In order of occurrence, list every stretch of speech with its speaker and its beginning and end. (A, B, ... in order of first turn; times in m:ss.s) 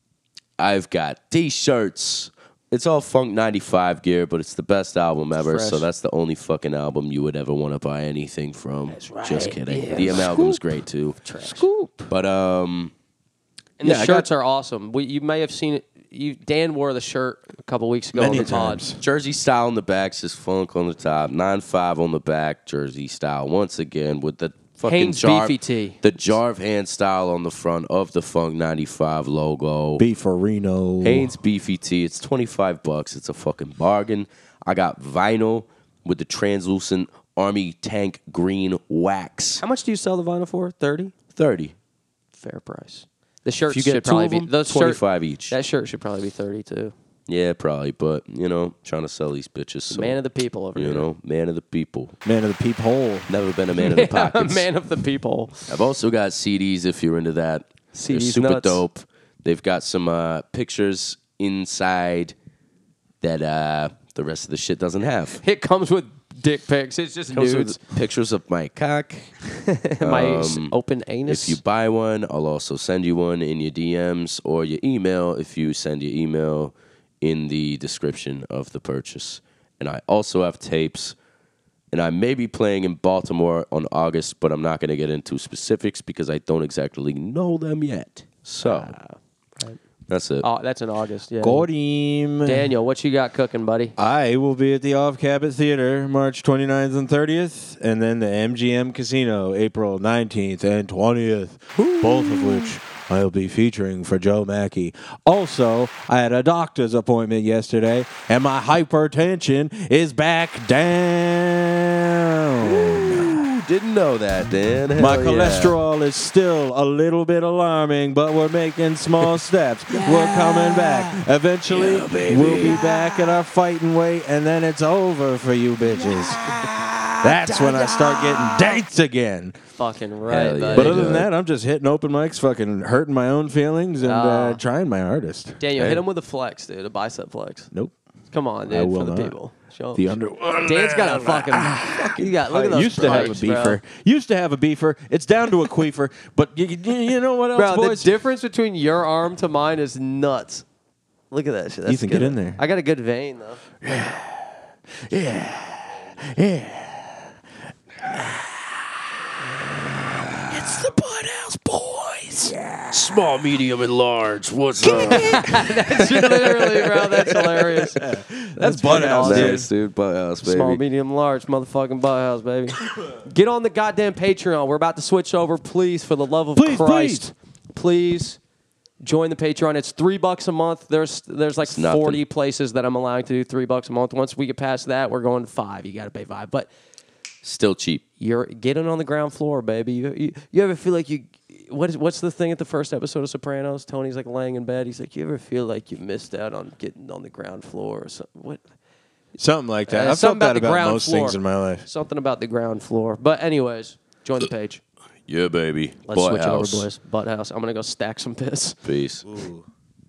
0:00.6-0:12.9 A
0:05.4-0:05.9 B
0:08.9-0:12.1 B
0:13.8-0:18.8 B
0:13.8-0:14.3 A
0:18.1-0:19.0 C
0:19.0-0:30.0 A
0:24.8-0:26.0 B
0:30.0-0:31.3 C
0:31.0-0:39.6 A
0:39.6-0:41.1 B
0:41.3-0:41.7 A
0:42.4-0:46.9 B
0:43.7-0:45.5 A
0:47.3-0:50.2 A
0:49.9-0:51.1 B
0:50.7-0:52.2 A
0:52.2-0:53.3 C
0:53.3-0:54.7 A
0:53.7-0:55.7 B
0:55.7-1:02.3 A
0:57.9-0:58.8 B
1:03.2-1:05.4 A
1:05.4-1:07.8 B
1:07.3-1:09.4 A
1:09.6-1:11.6 B
1:10.0-1:10.7 A
1:11.3-1:21.1 A
1:21.9-1:29.0 A
1:28.6-1:29.8 B
1:30.1-1:30.4 A
1:30.4-1:31.7 B
1:31.4-1:32.7 C
1:32.4-1:33.9 B
1:34.0-1:53.5 C
1:41.8-1:42.7 B
1:52.6-1:55.8 A
1:55.0-2:09.6 C
2:00.0-2:01.0 A
2:01.7-2:03.4 A
2:09.8-2:11.1 B
2:10.3-2:11.3 A
2:10.7-2:16.0 C
2:14.0-2:14.6 B
2:15.6-2:17.7 B
2:18.3-2:20.1 B
2:18.7-2:19.3 C
2:19.9-2:28.1 C
2:20.6-2:23.8 B
2:22.7-2:23.3 A
2:27.5-2:30.6 B
2:31.3-2:33.6 B
2:31.8-2:32.6 C
2:33.8-2:37.2 C
2:38.0-2:38.4 C
2:40.5-2:42.5 C
2:42.4-2:42.9 B
2:42.9-2:47.8 A
2:44.8-2:48.0 B
2:48.0-2:49.7 C
2:48.6-2:49.7 B
2:48.9-2:50.8 A
2:50.4-2:58.4 B
2:56.6-2:57.3 C
2:59.0-3:06.7 B
3:01.6-3:02.2 A
3:07.4-3:08.0 A
3:08.2-3:18.6 B
3:19.4-3:21.8 C
3:19.9-3:24.8 B
3:25.3-3:26.9 A
3:26.1-3:28.8 B
3:28.8-3:29.2 A
3:29.2-3:29.6 C